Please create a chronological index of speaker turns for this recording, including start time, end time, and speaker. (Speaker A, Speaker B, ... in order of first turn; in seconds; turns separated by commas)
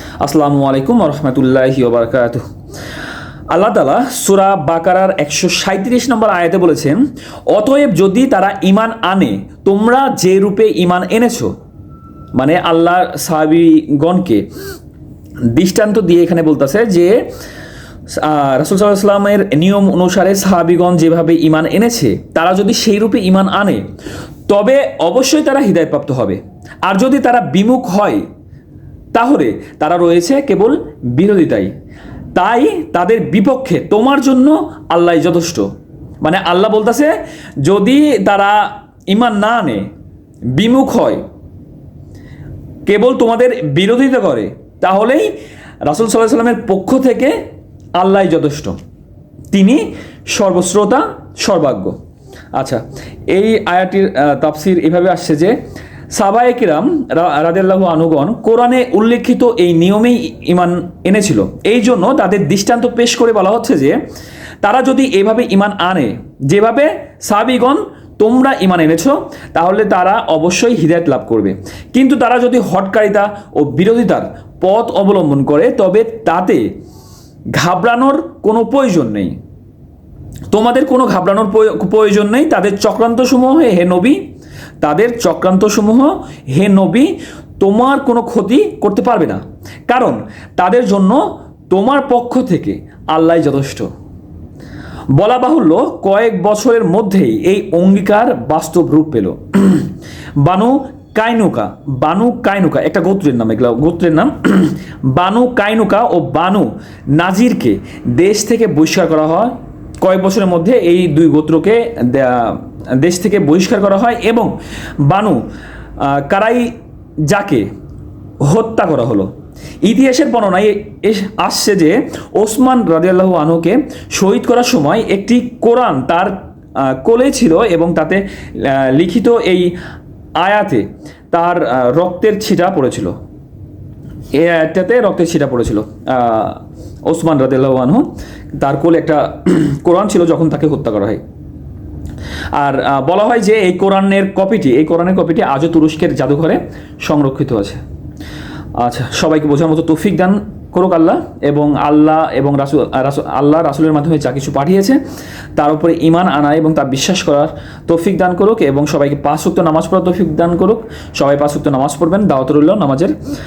Speaker A: 0.2-2.5, Speaker A: 3.5-7.0, Speaker A: 7.5-11.5, Speaker A: 12.3-14.5, Speaker A: 15.5-17.1, Speaker A: 18.2-23.8, Speaker A: 24.5-28.2, Speaker A: 29.1-31.7, Speaker A: 32.4-35.7, Speaker A: 36.2-39.9, Speaker A: 40.5-41.2, Speaker A: 42.9-45.3, Speaker A: 45.9-47.4, Speaker A: 48.0-48.8, Speaker A: 49.5-52.0, Speaker A: 52.5-55.5, Speaker A: 56.1-64.0, Speaker A: 64.6-76.7, Speaker A: 77.6-79.4, Speaker A: 80.5-84.2, Speaker A: 84.8-93.9, Speaker A: 95.1-114.5, Speaker A: 115.0-115.4, Speaker A: 116.0-116.7, Speaker A: 117.3-117.7, Speaker A: 118.5-119.3, Speaker A: 119.8-126.3, Speaker A: 126.9-129.7, Speaker A: 130.4-133.1, Speaker A: 134.3-141.2, Speaker A: 142.6-147.8, Speaker A: 148.8-155.0, Speaker A: 155.6-163.1